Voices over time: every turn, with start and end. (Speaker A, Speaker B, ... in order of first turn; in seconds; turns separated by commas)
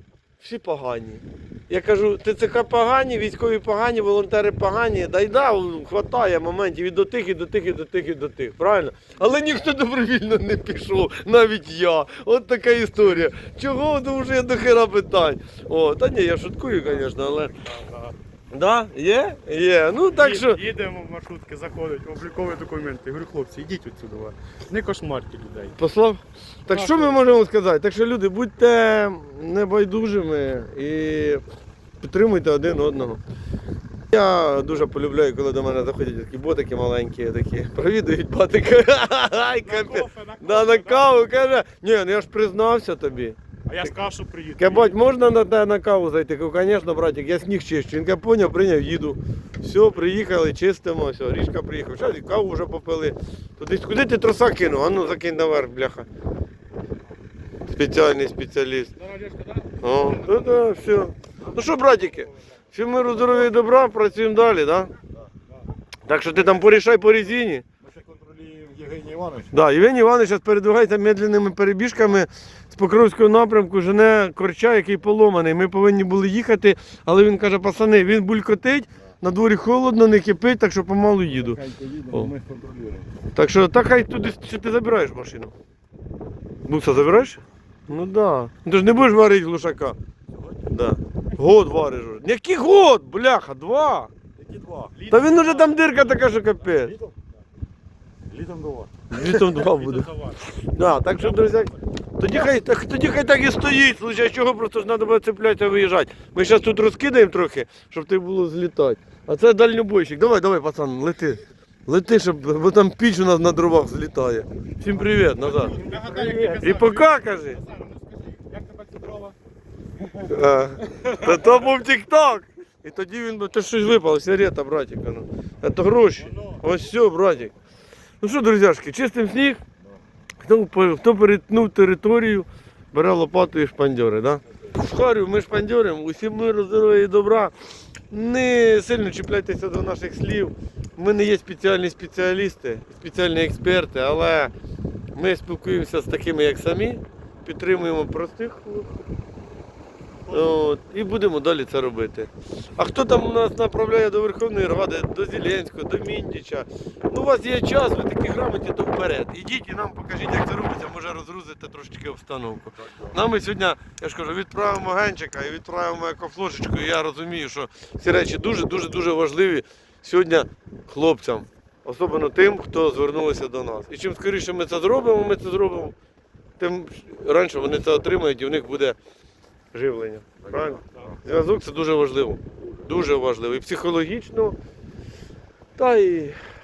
Speaker A: 0.4-17.5, Speaker B: 17.7-18.1, Speaker A: 18.5-20.6, Speaker B: 20.1-25.8, Speaker A: 25.8-31.4, Speaker B: 26.7-27.2, Speaker A: 32.0-33.2, Speaker A: 34.1-43.9, Speaker B: 39.6-41.2, Speaker B: 43.7-45.0, Speaker A: 44.6-56.1, Speaker A: 57.7-58.9, Speaker B: 59.0-60.6, Speaker A: 59.8-64.9, Speaker A: 66.1-67.7, Speaker C: 67.8-69.5, Speaker A: 69.5-81.6, Speaker C: 81.3-83.1, Speaker A: 83.3-85.5, Speaker A: 86.7-90.0, Speaker A: 90.7-94.1, Speaker C: 94.4-95.3, Speaker A: 95.1-96.9, Speaker C: 96.8-97.2, Speaker C: 98.3-99.3, Speaker A: 99.1-117.6, Speaker B: 99.5-100.4, Speaker B: 101.2-101.8, Speaker B: 115.4-119.4, Speaker A: 120.2-127.5, Speaker B: 121.0-121.2, Speaker B: 126.2-126.6, Speaker A: 128.2-129.6, Speaker A: 130.4-137.5, Speaker A: 138.1-144.5, Speaker A: 145.2-148.9, Speaker B: 150.3-150.5, Speaker A: 150.3-176.0, Speaker A: 176.6-179.0, Speaker A: 179.7-184.6, Speaker C: 180.5-181.0, Speaker A: 185.8-186.4